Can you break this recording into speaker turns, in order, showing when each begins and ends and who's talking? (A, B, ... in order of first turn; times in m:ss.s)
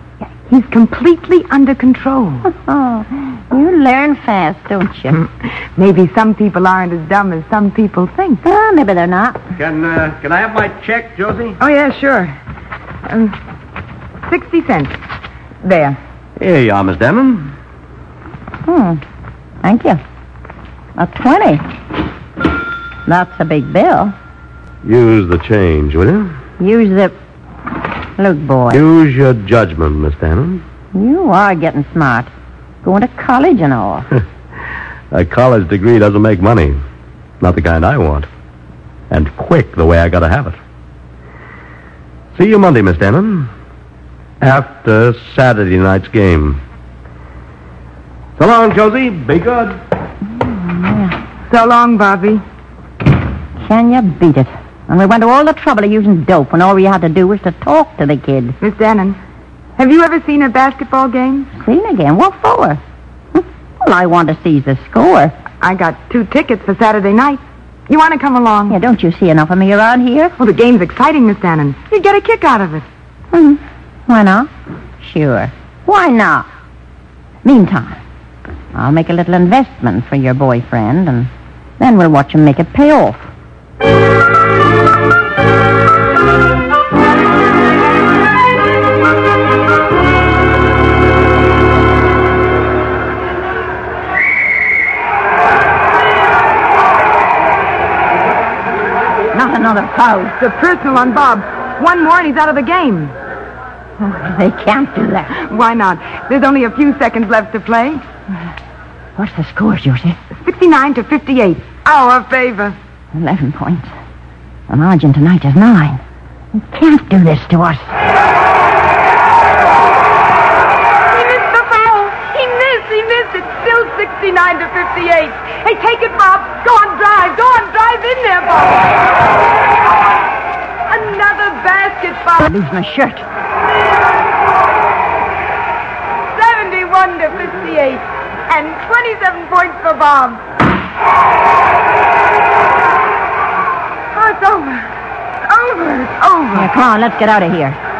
0:00.3-0:02.5 A
0:02.5-0:05.2 B
0:05.4-0:08.4 A
0:08.4-0:09.4 B
0:09.6-0:11.6 C
0:11.6-0:12.4 A
0:13.1-0:13.4 A
0:14.2-0:15.0 A
0:15.6-0:16.0 A
0:16.4-0:17.5 C
0:18.6-0:19.0 B
0:19.6-0:20.0 B
0:21.0-0:21.6 B
0:23.0-0:24.1 B
0:24.8-0:26.3 C
0:26.6-0:27.1 B
0:28.2-0:28.8 B
0:28.7-0:30.6 C
0:30.9-0:32.3 B
0:32.8-0:34.1 B
0:35.1-0:36.8 C
0:37.4-0:38.3 C
0:39.1-0:40.6 C
0:42.3-0:43.5 C
0:44.4-0:46.6 C
0:48.4-0:49.8 C
0:50.4-0:51.2 B
0:51.5-0:52.4 A
0:53.6-0:58.6 B
0:58.6-0:59.2 A
0:59.8-1:01.5 A
1:01.5-1:02.8 B
1:03.3-1:05.3 B
1:05.6-1:08.8 A
1:08.7-1:10.3 B
1:10.4-1:12.8 A
1:13.3-1:16.5 B
1:17.4-1:18.0 B
1:18.7-1:23.3 B
1:39.3-1:40.3 B
1:40.4-1:43.1 A
1:44.0-1:45.3 B
1:45.4-1:48.0 A
1:49.2-1:50.2 B
1:50.3-1:52.8 A
1:53.1-1:53.9 B
1:54.7-1:56.0 B
1:56.5-1:58.0 B
2:01.1-2:09.0 A
2:10.9-2:12.5 A
2:12.4-2:13.2 B
2:16.3-2:20.4 A
2:24.1-2:24.9 A
2:25.4-2:26.7 A
2:26.5-2:27.8 B